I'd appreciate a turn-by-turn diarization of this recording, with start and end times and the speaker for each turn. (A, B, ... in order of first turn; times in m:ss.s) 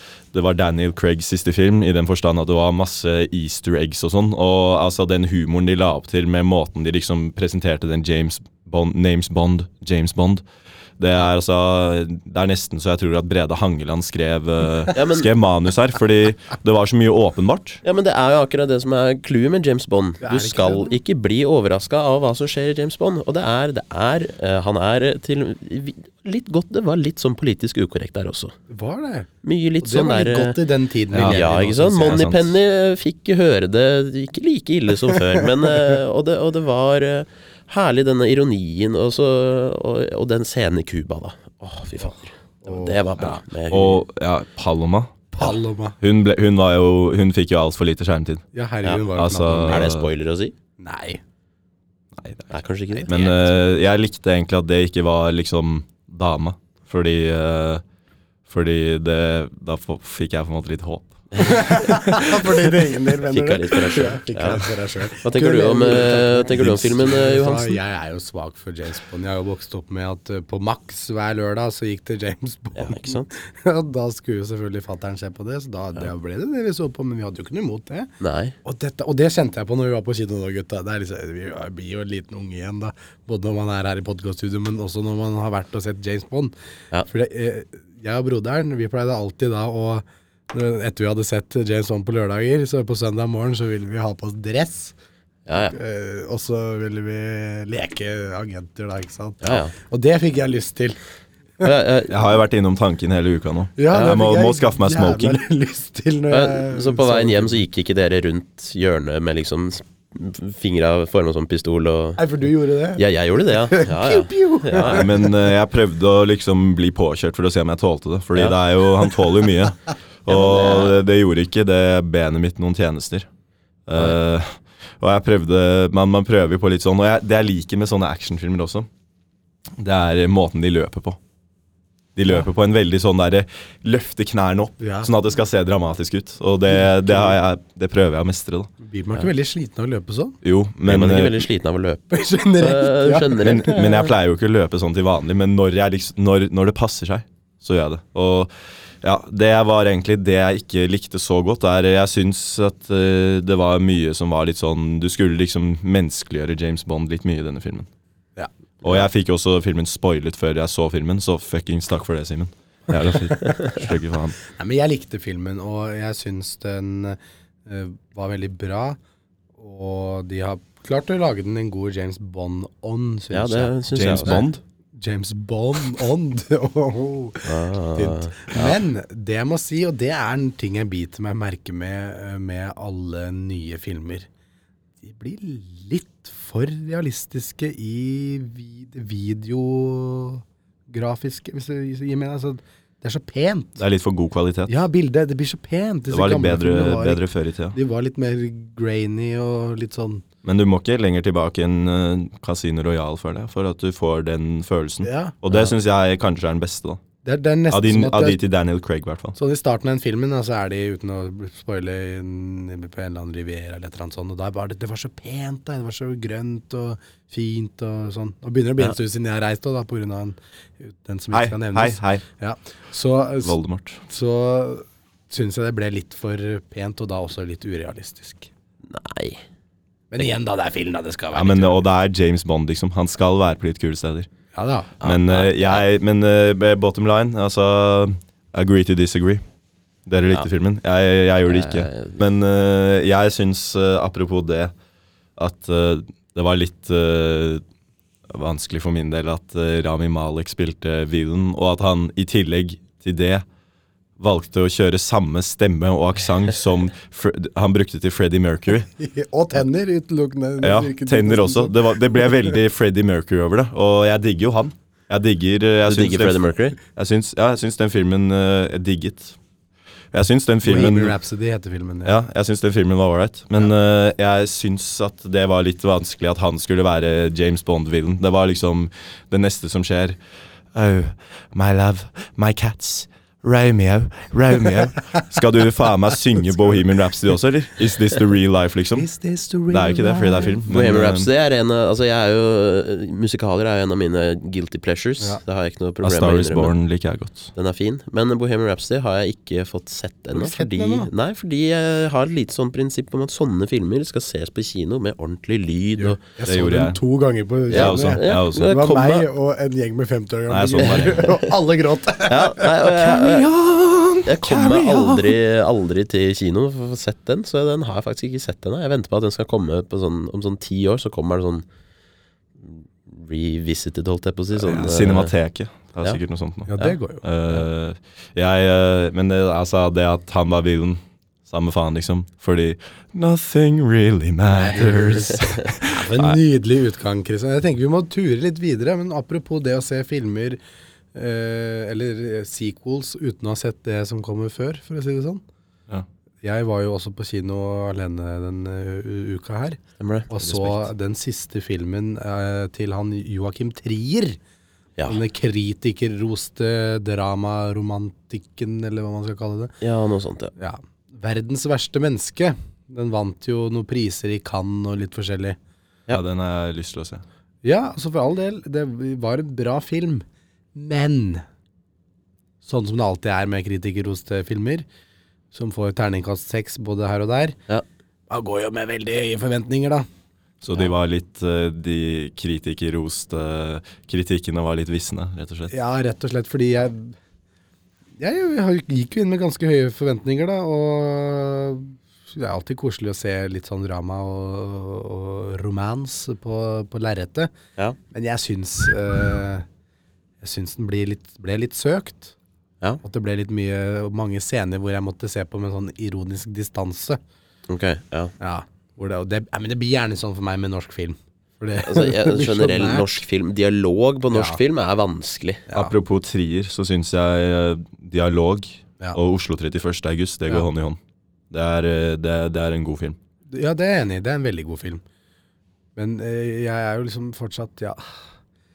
0:00.3-0:10.4 A
0:11.0-0:17.8 A
0:14.9-0:15.3 B
0:17.8-0:28.5 B
0:20.2-0:21.0 C
0:28.7-0:29.3 C
0:29.4-0:30.6 B
0:29.8-0:32.2 C
0:31.1-0:32.6 A
0:31.1-0:44.0 B
0:35.1-0:35.4 C
0:42.6-0:43.4 C
0:43.7-0:45.3 A
0:45.3-0:46.0 C
0:46.0-0:48.4 A
0:48.5-0:49.9 C
0:48.8-0:50.5 B
0:49.1-0:50.1 A
0:50.8-0:51.2 C
0:52.2-0:52.5 A
0:52.5-0:53.6 B
0:53.1-0:57.8 A
0:58.5-1:02.2 A
1:01.3-1:02.2 B
1:01.4-1:18.1 C
1:03.2-1:07.8 B
1:12.8-1:13.3 B
1:18.2-1:18.5 B
1:18.6-1:26.5 C
1:27.1-1:34.9 C
1:35.5-1:35.8 B
1:35.7-1:41.0 C
1:39.4-1:39.7 B
1:41.6-1:42.2 B
1:42.1-1:45.4 A
1:43.8-1:47.6 C
1:46.3-1:52.2 B
1:52.2-1:55.3 C
1:53.0-1:55.1 B
1:54.8-2:03.3 A
2:00.3-2:01.0 B
2:03.9-2:08.9 A
2:09.8-2:11.2 A
2:12.2-2:18.7 A
2:14.8-2:15.1 C
2:16.7-2:17.4 C
2:18.8-2:20.4 C
2:20.4-2:21.5 A
2:20.8-2:24.1 B
2:22.1-2:23.7 C
2:23.4-2:28.5 A
2:29.0-2:37.9 A
2:38.4-2:39.0 C
2:38.8-2:44.4 A
2:43.3-2:43.8 C
2:44.4-2:49.0 C
2:49.6-3:04.3 C
2:53.3-2:54.4 B
2:53.9-2:54.6 A
2:57.4-2:58.8 B
3:05.0-3:13.8 C
3:13.8-3:14.8 A
3:14.7-3:17.2 C
3:16.1-3:17.8 A
3:17.7-3:20.2 C
3:20.4-3:27.0 A
3:25.0-3:25.4 C
3:27.2-3:28.4 C
3:27.7-3:29.4 A
3:29.4-3:43.6 C
3:41.3-3:42.2 A
3:43.4-3:44.0 A
3:44.1-3:48.5 C
3:48.9-3:49.4 B
3:50.1-3:51.8 C
3:51.3-3:54.3 A
3:54.5-3:54.9 C
3:55.0-3:55.8 B
3:55.0-3:59.4 A
4:00.0-4:04.7 A
4:01.4-4:02.2 B
4:05.4-4:07.6 A
4:08.3-4:13.4 A
4:14.2-4:18.9 A
4:19.0-4:22.5 C
4:20.6-4:29.4 A
4:25.9-4:26.8 B
4:30.1-4:31.2 A
4:30.6-4:32.1 C
4:32.0-4:40.2 A
4:40.7-4:49.1 A
4:48.9-4:50.6 C
4:49.7-4:51.3 A
4:50.7-4:56.7 B
4:56.0-4:57.5 A
4:57.5-5:06.2 B
5:00.3-5:01.1 C
5:06.0-5:12.9 C
5:06.4-5:07.0 A
5:07.7-5:08.7 A
5:07.7-5:09.3 B
5:10.5-5:11.3 A
5:10.8-5:11.4 B
5:12.3-5:13.5 B
5:12.9-5:15.4 A
5:14.2-5:21.6 B
5:22.6-5:25.3 B
5:24.6-5:36.4 A
5:26.7-5:27.6 C
5:34.5-5:40.6 C
5:41.1-5:45.4 C
5:46.4-5:54.4 C
5:50.0-5:50.3 B
5:50.4-5:50.9 A
5:55.1-5:59.7 C
5:59.8-6:00.5 B
6:00.6-6:05.6 C
6:06.1-6:07.2 A
6:07.6-6:10.2 C
6:10.7-6:11.4 C
6:12.6-6:14.8 C
6:15.5-6:17.6 C
6:18.3-6:20.1 C
6:20.6-6:25.7 A
6:25.7-6:27.1 C
6:28.2-6:37.5 C
6:38.1-6:39.6 C
6:40.4-6:42.3 C
6:43.0-6:47.2 C
6:47.7-6:48.3 B
6:48.4-6:53.2 C
6:51.8-6:55.6 B
6:54.3-6:54.6 C
6:55.7-6:55.9 C
6:55.7-7:01.0 A
7:01.5-7:03.2 A
7:03.5-7:05.0 C
7:06.0-7:08.2 C